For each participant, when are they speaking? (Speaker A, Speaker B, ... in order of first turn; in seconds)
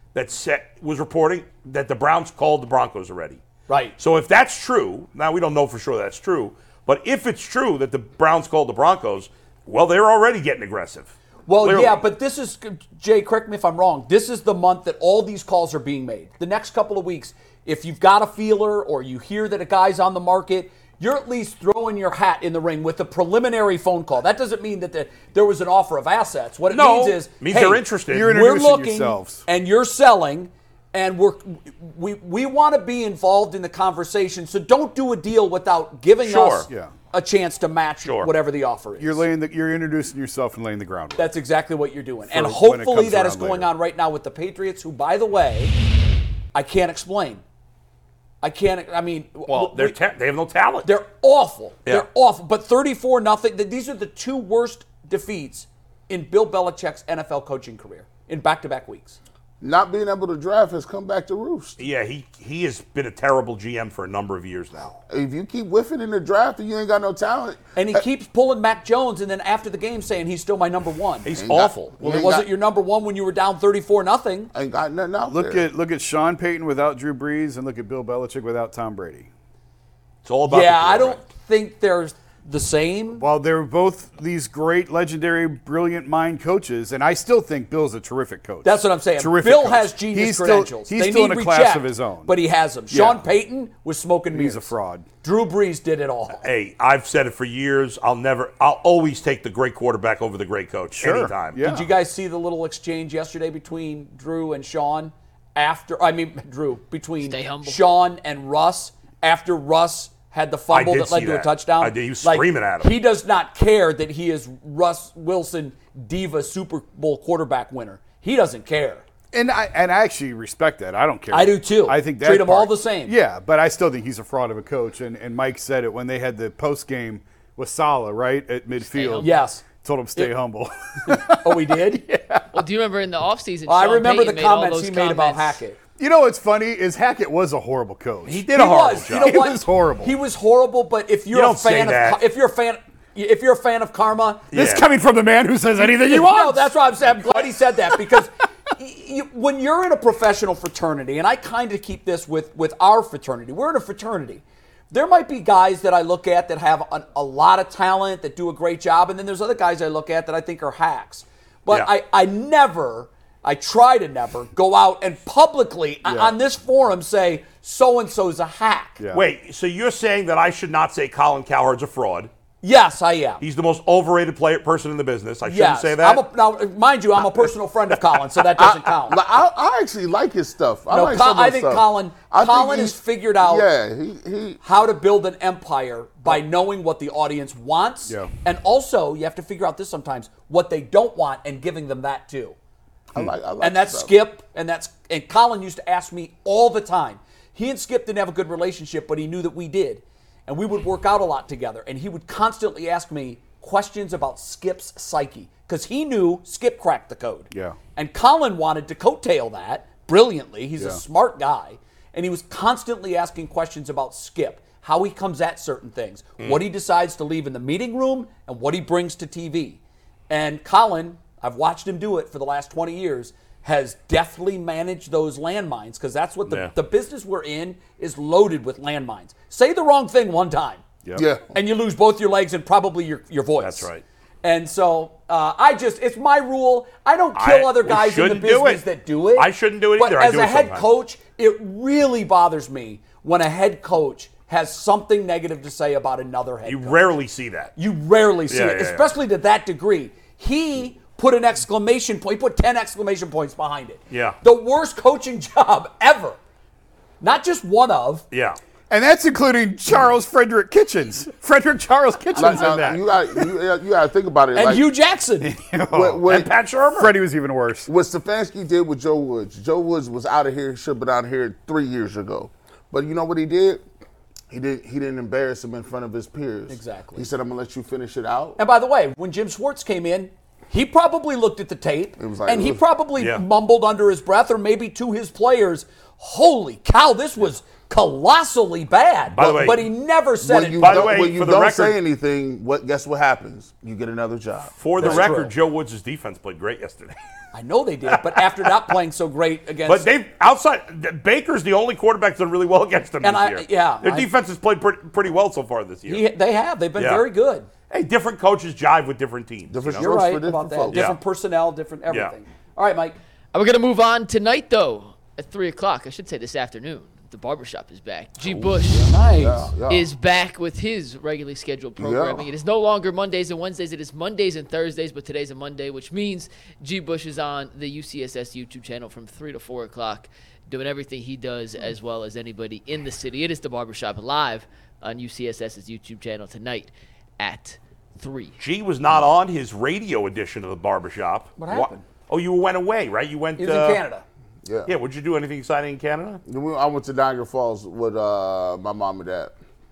Speaker A: 0.1-3.4, 4.0-12.0, 26.7-28.3, 36.2-36.7, 38.0-38.3, 49.5-50.9, 61.8-65.0, 71.2-72.0, 80.2-81.2, 96.4-101.6, 110.7-112.9, 138.3-139.4, 141.3-142.2, 144.5-144.8, 169.1-172.3, 173.4-176.2, 226.5-226.7, 233.6-234.0, 237.3-238.8, 239.3-240.9, 246.7-247.7, 248.5-249.1, 254.1-254.4, 258.3-258.6, 266.3-267.1, 289.3-289.9, 290.8-292.0, 294.8-297.2, 298.1-298.9, 299.9-306.2, 307.0-307.2, 307.9-310.1, 310.9-311.2, 338.6-344.0, 344.9-346.4
Speaker B: 3.7-4.0, 11.5-39.2, 41.2-45.7, 46.5-47.4, 48.4-50.0, 50.8-59.2, 67.8-71.3, 72.0-74.5, 80.5-83.2, 88.6-96.4, 101.6-119.0, 121.3-123.2, 129.2-129.6, 131.1-132.4, 133.7-135.8, 138.5-144.5, 145.8-169.0, 172.6-173.4, 175.4-179.2, 180.9-183.7, 184.6-192.6, 193.6-230.8, 231.5-233.9, 234.4-247.1, 247.8-256.4, 257.2-258.2, 264.6-265.5, 276.7-277.3, 278.6-291.1, 295.0-295.5, 297.5-300.1, 303.2-304.3, 306.1-307.7, 310.0-313.2, 318.9-319.7, 341.6-342.0, 343.6-344.2
Speaker C: 28.1-29.4, 39.0-41.3, 42.3-43.7, 75.3-79.3, 83.2-92.4, 92.9-93.2, 94.3-95.1, 101.0-101.9, 119.3-131.8, 136.0-138.4, 139.1-140.2, 144.5-148.2, 166.1-166.3, 169.0-169.3, 207.5-207.8, 258.9-263.5, 265.4-266.3, 266.9-267.9
Speaker D: 59.6-61.8, 65.1-68.0, 71.3-72.5, 74.5-75.7, 178.6-184.6, 193.1-194.2, 231.2-231.5, 262.4-264.9, 265.9-266.5, 267.9-273.8, 274.5-278.6, 282.2-282.8, 290.4-295.3, 309.7-311.1, 319.4-320.1, 322.0-322.5, 344.6-344.9, 346.5-349.5
Speaker E: 107.2-107.8, 128.8-129.4, 132.5-135.6, 313.5-319.1, 319.9-338.6